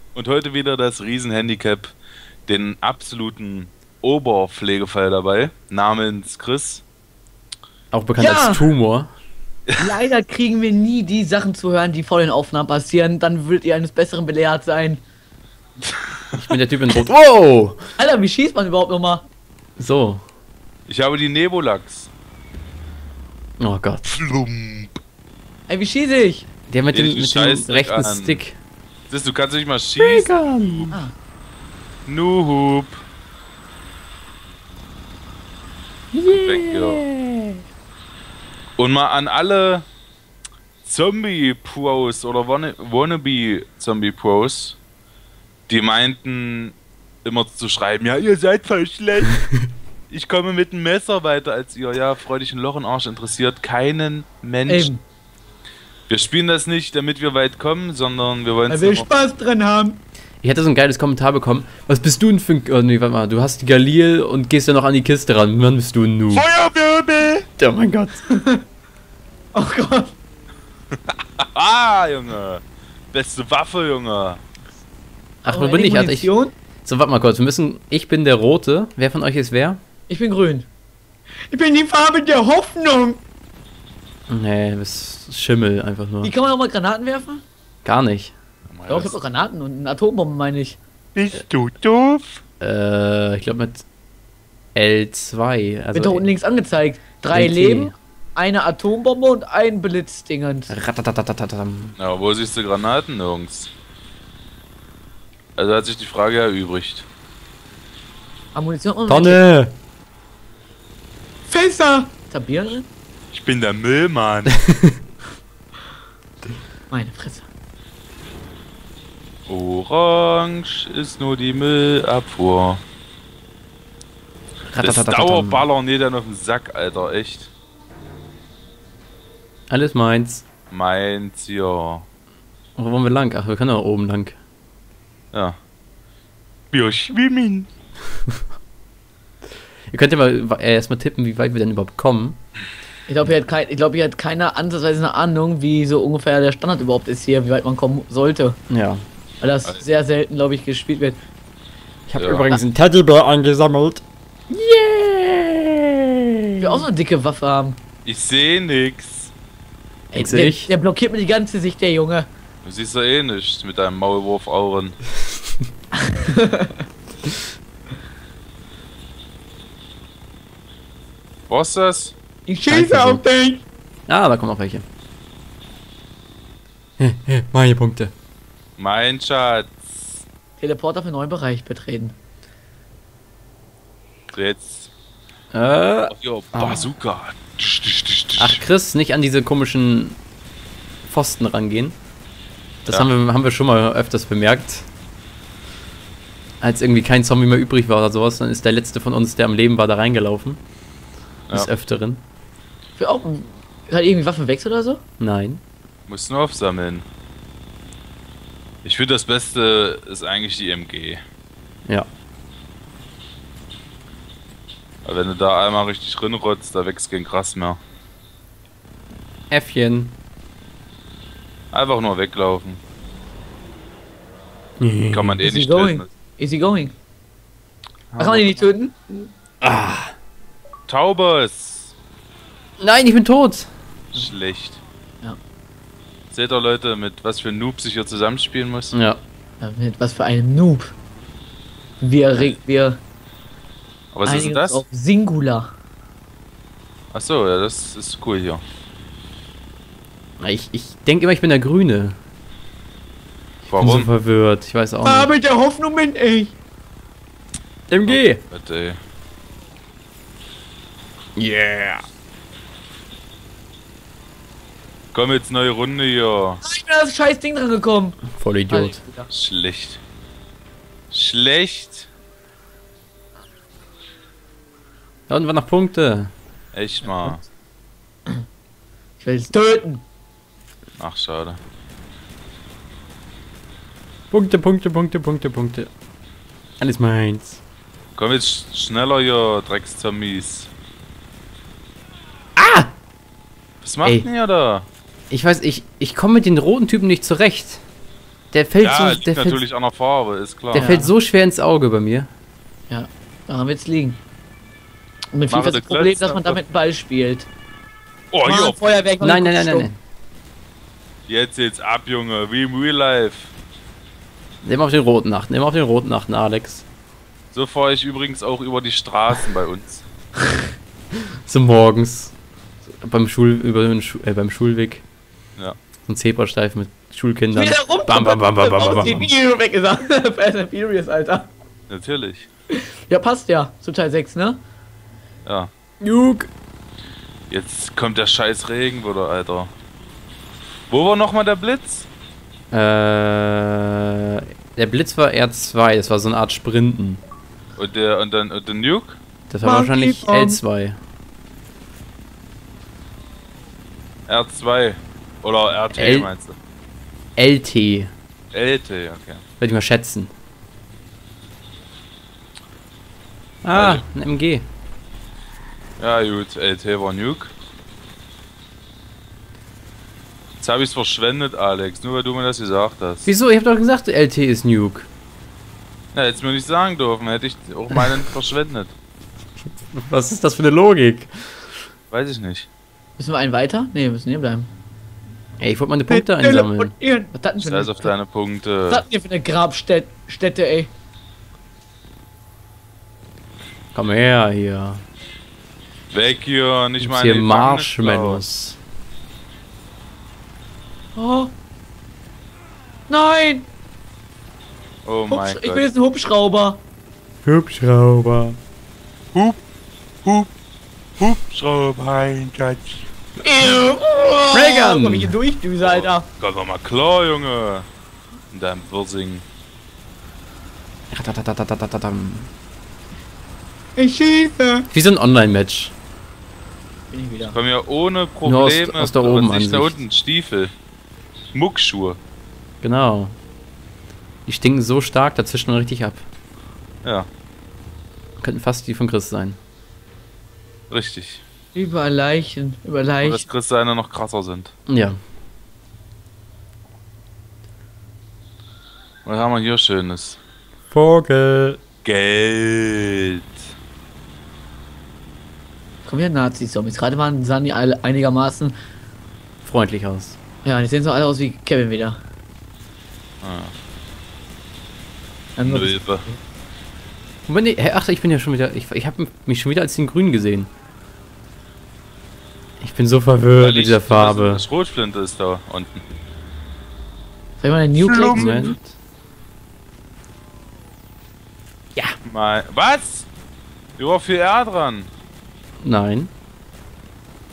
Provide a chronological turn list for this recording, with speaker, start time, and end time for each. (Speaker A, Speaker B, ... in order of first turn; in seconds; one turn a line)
Speaker A: 0.1-1.9
Speaker A: 2.5-6.8
Speaker B: 7.9-9.1
Speaker C: 8.2-8.7
Speaker C: 9.8-15.0
Speaker B: 16.4-17.8
Speaker C: 18.0-19.3
Speaker B: 19.8-20.2
Speaker A: 20.9-22.1
Speaker B: 23.6-24.1
Speaker A: 24.1-25.0
Speaker C: 25.7-26.5
Speaker B: 26.7-28.6
Speaker A: 26.9-28.4
Speaker A: 29.1-30.9
Speaker B: 30.0-30.9
Speaker A: 32.1-33.0
Speaker B: 36.1-37.6
Speaker A: 36.4-37.0
Speaker A: 38.8-39.9
Speaker A: 40.8-44.8
Speaker A: 45.7-49.5
Speaker A: 50.1-54.9
Speaker C: 54.7-55.0
Speaker A: 56.1-59.1
Speaker C: 58.7-60.0
Speaker B: 60.4-66.5
Speaker C: 66.3-67.5
Speaker B: 67.6-68.2
Speaker C: 68.3-68.6
Speaker C: 69.5-70.2
Speaker A: 71.4-74.4
Speaker C: 75.4-76.5
Speaker B: 75.5-76.3
Speaker B: 76.8-79.8
Speaker C: 80.1-80.7
Speaker C: 81.5-83.2
Speaker B: 84.3-86.3
Speaker C: 86.2-87.4
Speaker B: 87.8-88.3
Speaker A: 88.7-89.2
Speaker C: 88.9-90.8
Speaker A: 91.2-92.4
Speaker B: 92.6-93.8
Speaker B: 94.8-96.3
Speaker C: 95.9-100.7
Speaker B: 97.3-98.0
Speaker B: 100.7-102.0
Speaker A: 102.0-103.7
Speaker A: 105.6-107.1
Speaker C: 108.5-109.4
Speaker B: 109.1-109.7
Speaker C: 111.5-112.9
Speaker A: 113.3-114.6
Speaker C: 116.9-117.5
Speaker A: 119.5-122.8
Speaker B: 124.7-125.7
Speaker A: 124.8-127.5
Speaker B: 129.7-130.5
Speaker A: 130.7-132.1
Speaker B: 132.8-134.4
Speaker A: 136.7-137.7
Speaker B: 139.9-142.4
Speaker C: 143.1-148.6
Speaker B: 148.7-149.0
Speaker C: 149.4-151.2
Speaker B: 152.1-156.9
Speaker A: 152.2-152.6
Speaker C: 156.6-157.8
Speaker A: 158.1-159.3
Speaker C: 160.1-162.3
Speaker B: 160.1-160.7
Speaker A: 162.7-165.0
Speaker C: 166.1-166.8
Speaker A: 171.5-172.1
Speaker C: 172.5-173.6
Speaker B: 172.7-173.2
Speaker B: 174.1-174.8
Speaker B: 177.0-178.1
Speaker A: 178.8-180.2
Speaker C: 180.6-182.2
Speaker A: 184.3-184.9
Speaker B: 185.5-186.8
Speaker A: 186.1-188.6
Speaker B: 188.4-190.2
Speaker B: 191.1-192.0
Speaker B: 192.9-194.9
Speaker B: 196.6-200.6
Speaker B: 201.5-202.2
Speaker C: 203.0-205.0
Speaker B: 205.2-205.6
Speaker A: 206.1-207.1
Speaker A: 208.8-211.2
Speaker A: 215.1-217.8
Speaker B: 219.5-220.2
Speaker A: 221.7-222.8
Speaker B: 224.8-225.4
Speaker A: 225.1-226.1
Speaker C: 225.4-226.9
Speaker A: 228.1-228.6
Speaker C: 228.2-229.0
Speaker B: 229.6-230.1
Speaker A: 230.9-231.9
Speaker B: 232.8-233.7
Speaker A: 234.1-234.8
Speaker A: 236.3-238.9
Speaker B: 238.9-239.2
Speaker C: 239.6-240.9
Speaker C: 242.0-243.0
Speaker A: 244.1-244.8
Speaker C: 244.2-245.7
Speaker A: 247.1-248.6
Speaker B: 250.4-252.2
Speaker A: 253.7-254.1
Speaker B: 253.8-255.3
Speaker C: 255.0-256.5
Speaker B: 257.9-258.4
Speaker A: 258.1-259.0
Speaker B: 261.4-262.1
Speaker A: 265.1-266.6
Speaker C: 266.6-269.3
Speaker B: 268.4-269.0
Speaker A: 269.3-270.0
Speaker A: 271.1-272.1
Speaker B: 275.3-276.3
Speaker A: 276.7-277.4
Speaker C: 277.1-277.4
Speaker C: 279.2-280.0
Speaker A: 281.0-281.6
Speaker B: 284.3-285.9
Speaker B: 286.8-287.6
Speaker A: 288.2-290.7
Speaker B: 292.6-292.9
Speaker A: 293.8-294.9
Speaker B: 295.3-297.8
Speaker B: 298.5-299.6
Speaker A: 298.8-300.9
Speaker C: 300.7-301.1
Speaker B: 300.7-302.3
Speaker C: 302.9-304.2
Speaker C: 305.3-307.5
Speaker A: 305.5-306.6
Speaker A: 308.3-308.8
Speaker C: 308.4-309.9
Speaker B: 309.2-310.0
Speaker A: 311.3-313.5
Speaker B: 314.6-316.9
Speaker A: 317.5-320.1
Speaker B: 321.5-322.4
Speaker B: 323.0-325.0
Speaker B: 326.1-329.3
Speaker C: 327.5-331.5
Speaker A: 331.9-332.5
Speaker C: 333.1-334.6
Speaker A: 335.4-335.7
Speaker B: 336.0-336.5
Speaker A: 337.5-339.7
Speaker A: 340.9-342.1
Speaker B: 342.7-347.2
Speaker A: 347.8-349.2
Speaker B: 349.5-351.0
Speaker C: 349.6-350.6
Speaker A: 354.3-356.6
Speaker B: 355.9-356.3
Speaker B: 357.4-358.1
Speaker A: 358.5-359.4
Speaker B: 359.6-360.3
Speaker B: 363.6-364.7
Speaker A: 363.7-364.0
Speaker A: 366.0-367.5
Speaker A: 370.6-373.3
Speaker B: 373.3-375.1
Speaker A: 376.1-378.9
Speaker B: 379.9-381.6
Speaker A: 382.1-382.7
Speaker C: 383.2-384.7
Speaker B: 385.6-386.9
Speaker C: 386.1-388.1
Speaker A: 387.6-389.1
Speaker C: 388.9-390.9
Speaker B: 393.9-395.0
Speaker A: 396.1-398.4
Speaker B: 397.0-398.8
Speaker C: 401.1-401.5
Speaker C: 403.1-403.7
Speaker A: 405.1-405.9
Speaker C: 405.3-406.8
Speaker B: 407.4-408.6
Speaker A: 409.3-409.6
Speaker A: 410.2-410.5
Speaker A: 411.2-413.1
Speaker C: 413.4-416.3
Speaker B: 414.5-415.4
Speaker A: 415.8-417.9
Speaker A: 418.5-419.4
Speaker B: 421.1-422.5
Speaker C: 424.0-424.9
Speaker B: 424.9-425.9
Speaker C: 427.1-427.6
Speaker A: 427.4-430.7
Speaker B: 428.4-430.0
Speaker A: 431.5-432.2
Speaker B: 432.8-433.4
Speaker B: 434.5-436.2
Speaker B: 438.4-439.6
Speaker A: 440.9-441.4
Speaker C: 441.8-443.4
Speaker A: 443.2-444.7
Speaker B: 444.9-445.2
Speaker A: 449.2-450.4
Speaker B: 450.9-451.8
Speaker A: 452.0-453.4
Speaker C: 456.1-458.8
Speaker B: 459.6-460.4
Speaker C: 460.6-462.2
Speaker A: 463.4-463.7
Speaker C: 465.6-466.4
Speaker A: 465.6-466.2
Speaker B: 467.5-470.7
Speaker B: 472.8-474.6
Speaker A: 473.6-476.0
Speaker C: 477.6-478.7
Speaker A: 478.0-478.7
Speaker B: 478.3-479.0
Speaker A: 482.2-483.3
Speaker A: 484.0-485.1
Speaker B: 485.8-486.3